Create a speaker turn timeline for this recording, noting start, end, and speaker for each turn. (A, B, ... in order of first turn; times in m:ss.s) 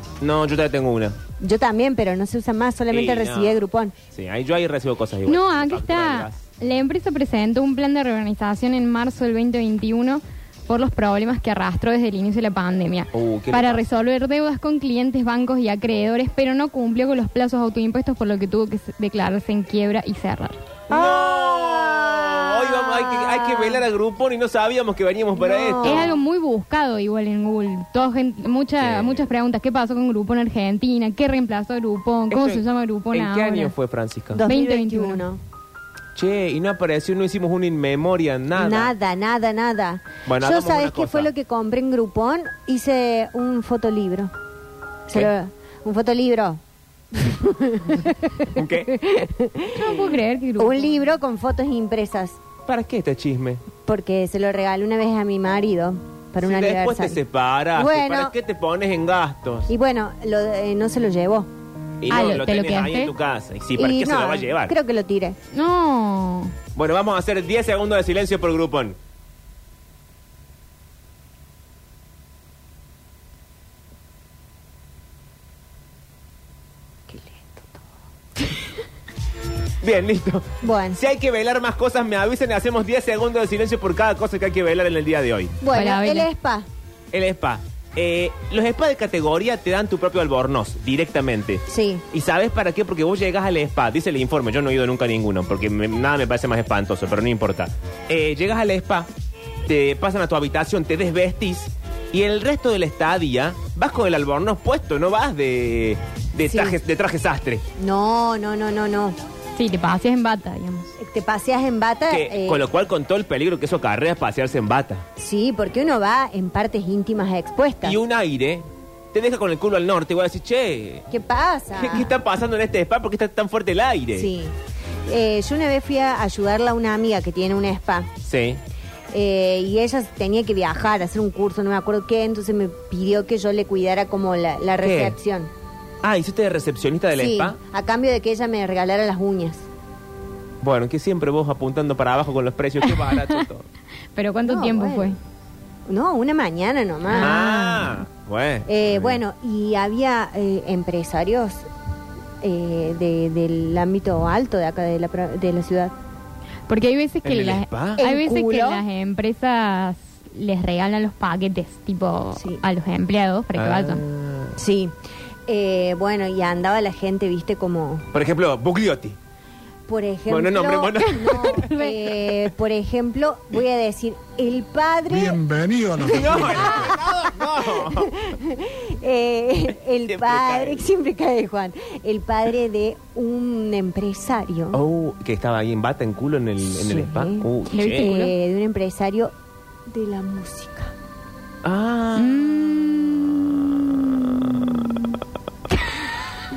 0:00.2-0:01.2 A
0:01.4-0:03.9 B
0:02.9-0:06.4 A
0:05.3-0:20.6 C
0:13.1-0:13.8 A
0:20.9-0:23.8 B
0:20.9-0:26.1 A
0:25.4-0:26.1 B
0:25.8-0:33.7 C
0:28.8-0:29.3 A
0:32.3-0:34.4 A
0:34.3-0:35.4 B
0:34.5-0:35.2 C
0:36.2-0:38.9 A
0:38.6-0:44.3 B
0:40.2-0:41.3 A
0:45.1-0:46.6 B
0:47.1-0:52.4 B
0:48.5-0:48.9 A
0:49.8-0:51.0 C
0:52.7-0:53.6 A
0:53.9-0:57.2 B
0:56.4-0:59.7 A
0:57.8-0:58.4 B
0:59.7-1:01.5 B
1:02.0-1:04.8 A
1:02.1-1:03.1 C
1:03.8-1:05.4 B
1:05.5-1:06.5 C
1:06.8-1:09.0 A
1:17.1-1:17.9 B
1:19.8-1:25.6 A
1:20.6-1:21.0 B
1:25.6-1:26.7 B
1:25.7-1:26.3 C
1:27.1-1:39.1 A
1:31.7-1:32.0 B
1:39.7-1:47.6 A
1:46.5-1:46.8 B
1:47.8-1:49.2 B
1:49.6-1:50.9 C
1:51.0-1:52.6 B
1:52.1-1:55.0 A
1:55.2-1:58.0 B
1:57.8-2:01.1 A
2:01.1-2:02.2 B
2:01.8-2:04.3 A
2:04.2-2:04.5 B
2:05.1-2:08.1 B
2:08.2-2:08.6 A
2:09.1-2:15.5 B
2:14.8-2:15.2 A
2:16.0-2:17.6 A
2:17.2-2:19.7 B
2:20.6-2:23.7 A
2:24.2-2:25.2 C
2:24.5-2:25.2 B
2:25.9-2:28.0 B
2:27.2-2:29.2 A
2:28.7-2:31.7 B
2:32.4-2:35.9 B
2:36.7-2:44.0 C
2:37.2-2:38.0 A
2:38.0-2:38.8 B
2:42.4-2:42.6 B
2:43.6-2:44.6 A
2:44.6-2:44.9 B
2:45.5-2:48.1 B
2:48.1-2:49.2 A
2:49.9-2:57.0 B
2:50.3-2:51.7 A
2:51.6-2:51.9 C
2:55.9-2:58.1 A
2:57.6-3:04.8 B
3:00.1-3:00.8 A
3:04.7-3:08.1 A
3:06.7-3:09.3 B
3:07.7-3:08.3 C
3:09.9-3:10.9 B
3:11.6-3:15.2 A